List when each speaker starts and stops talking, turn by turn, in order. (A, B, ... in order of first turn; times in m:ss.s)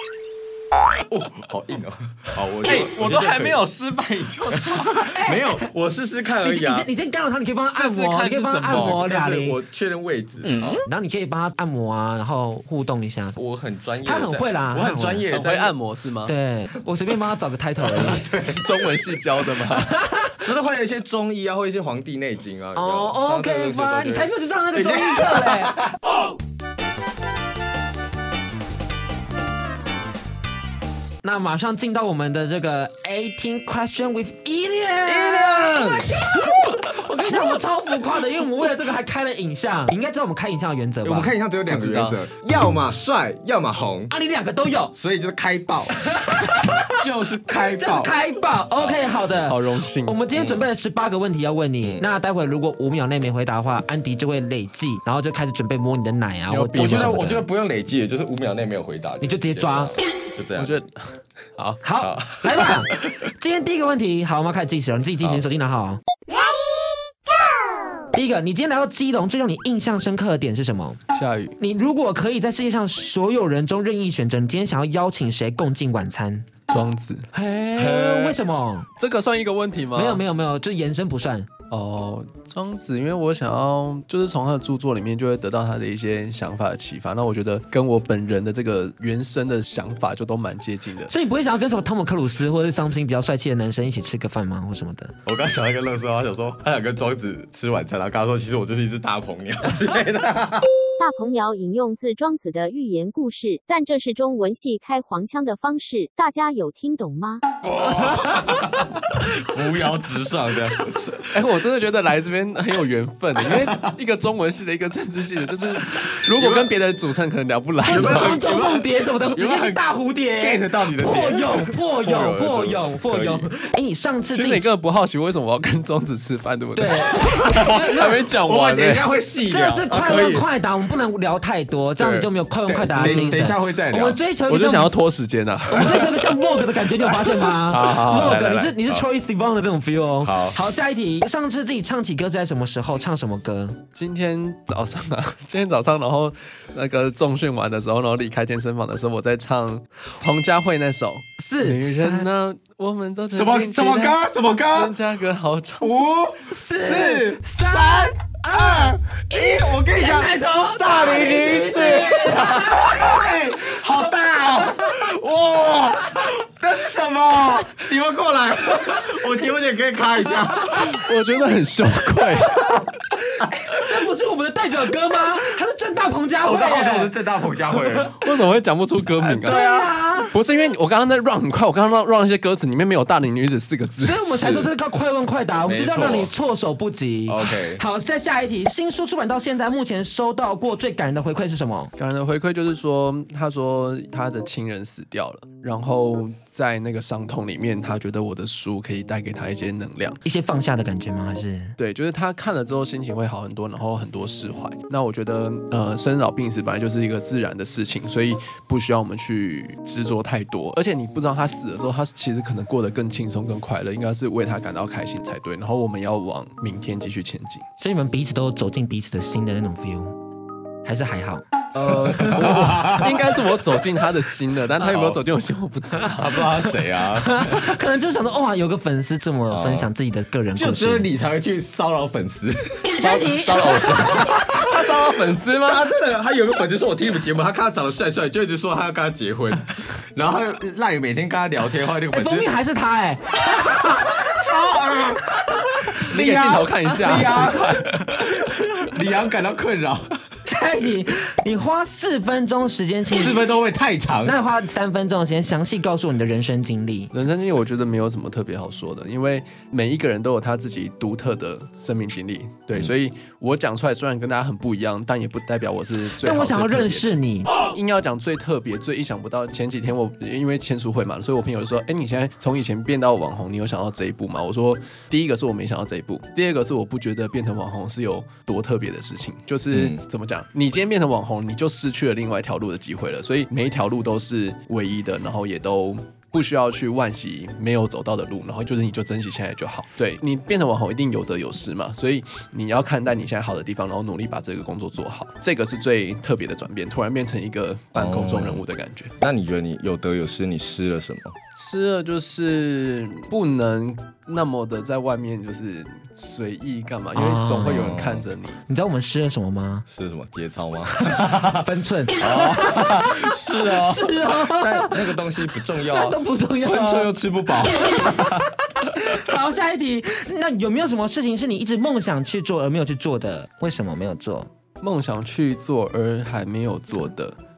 0:01.0-0:03.6 A
0:02.6-0:05.1 B
0:04.7-0:06.9 A
0:05.0-0:05.7 C
0:06.4-0:09.6 C
0:07.7-0:09.0 B
0:08.5-0:10.8 A
0:10.9-0:13.4 C
0:13.4-0:15.7 A
0:14.0-0:15.2 C
0:15.3-0:16.3 B
0:16.2-0:18.2 C
0:17.8-0:18.8 A
0:18.4-0:20.0 B
0:19.7-0:20.4 C
0:20.4-0:25.9 A
0:22.8-0:25.8 C
0:31.2-0:41.3 C
0:35.1-0:36.2 A
0:41.0-0:44.1 A
0:41.6-0:42.2 B
0:44.1-0:44.9 C
0:44.9-0:46.1 A
0:46.0-0:57.4 C
0:47.0-0:48.1 A
0:48.8-0:49.4 A
0:49.4-0:50.2 B
0:50.3-0:50.7 A
0:51.8-0:52.1 A
0:56.5-0:57.2 B
0:56.8-1:00.8 A
0:59.2-0:59.9 C
1:00.5-1:01.8 B
1:01.8-1:06.0 C
1:02.0-1:02.8 A
1:08.1-1:11.0 C
1:11.1-1:11.6 B
1:11.6-1:16.5 C
1:16.7-1:18.3 B
1:17.3-1:18.9 C
1:17.9-1:18.2 A
1:19.0-1:20.2 B
1:19.9-1:21.5 C
1:21.7-1:31.1 B
1:31.1-1:35.1 C
1:35.2-1:40.7 A
1:41.0-1:47.4 D
1:47.6-1:51.2 A
1:51.3-1:58.4 B
1:53.4-1:54.0 A
1:56.0-1:56.7 A
1:57.8-2:04.7 C
1:57.8-1:59.8 A
2:00.4-2:03.5 A
2:04.3-2:09.1 B
2:06.8-2:08.2 C
2:07.3-2:10.5 A
2:09.5-2:15.0 C
2:12.0-2:14.2 A
2:12.9-2:13.5 B
2:14.5-2:16.3 B
2:15.7-2:23.8 C
2:17.7-2:18.7 B
2:20.2-2:20.6 A
2:24.0-2:34.2 B
2:31.4-2:32.3 C
2:33.3-2:35.0 A
2:34.7-2:36.0 B
2:35.8-2:51.0 A
2:36.5-2:43.2 C
2:50.8-2:52.6 B
2:52.6-2:57.1 C
2:56.4-2:58.1 A
2:57.8-2:58.0 C
2:58.2-2:59.6 B
2:59.2-2:59.9 A
2:59.4-3:00.3 C
3:00.2-3:04.3 B
3:04.0-3:11.9 C
3:04.3-3:04.7 A
3:05.6-3:06.3 A
3:07.3-3:07.8 A
3:12.0-3:20.2 B
3:20.2-3:21.8 C
3:21.8-3:37.6 B
3:37.8-3:40.2 C
3:40.8-3:41.4 C
3:41.7-3:46.5 B
3:42.1-3:43.4 A
3:44.8-3:45.2 A
3:46.1-3:47.8 A
3:47.1-3:51.1 C
3:49.5-3:49.9 A
3:50.5-3:52.9 A
3:52.9-3:54.7 C
3:53.0-3:55.9 B
3:55.4-4:02.5 A
4:02.1-4:04.4 C
4:04.0-4:10.2 A
4:05.6-4:08.9 C
4:06.1-4:08.2 B
4:10.5-4:13.4 C
4:13.1-4:14.4 A
4:14.2-4:17.1 C
4:17.1-4:59.1 B
4:26.2-4:27.5 C
4:39.7-4:40.0 A
4:57.9-4:58.6 A
4:59.2-5:01.4 A
5:01.6-5:08.6 B
5:07.1-5:08.0 C
5:07.6-5:08.2 A
5:08.7-5:09.9 C
5:09.9-5:11.7 A
5:11.0-5:15.2 C
5:12.2-5:18.4 A
5:15.8-5:17.1 C
5:17.8-5:24.5 C
5:24.8-5:27.4 B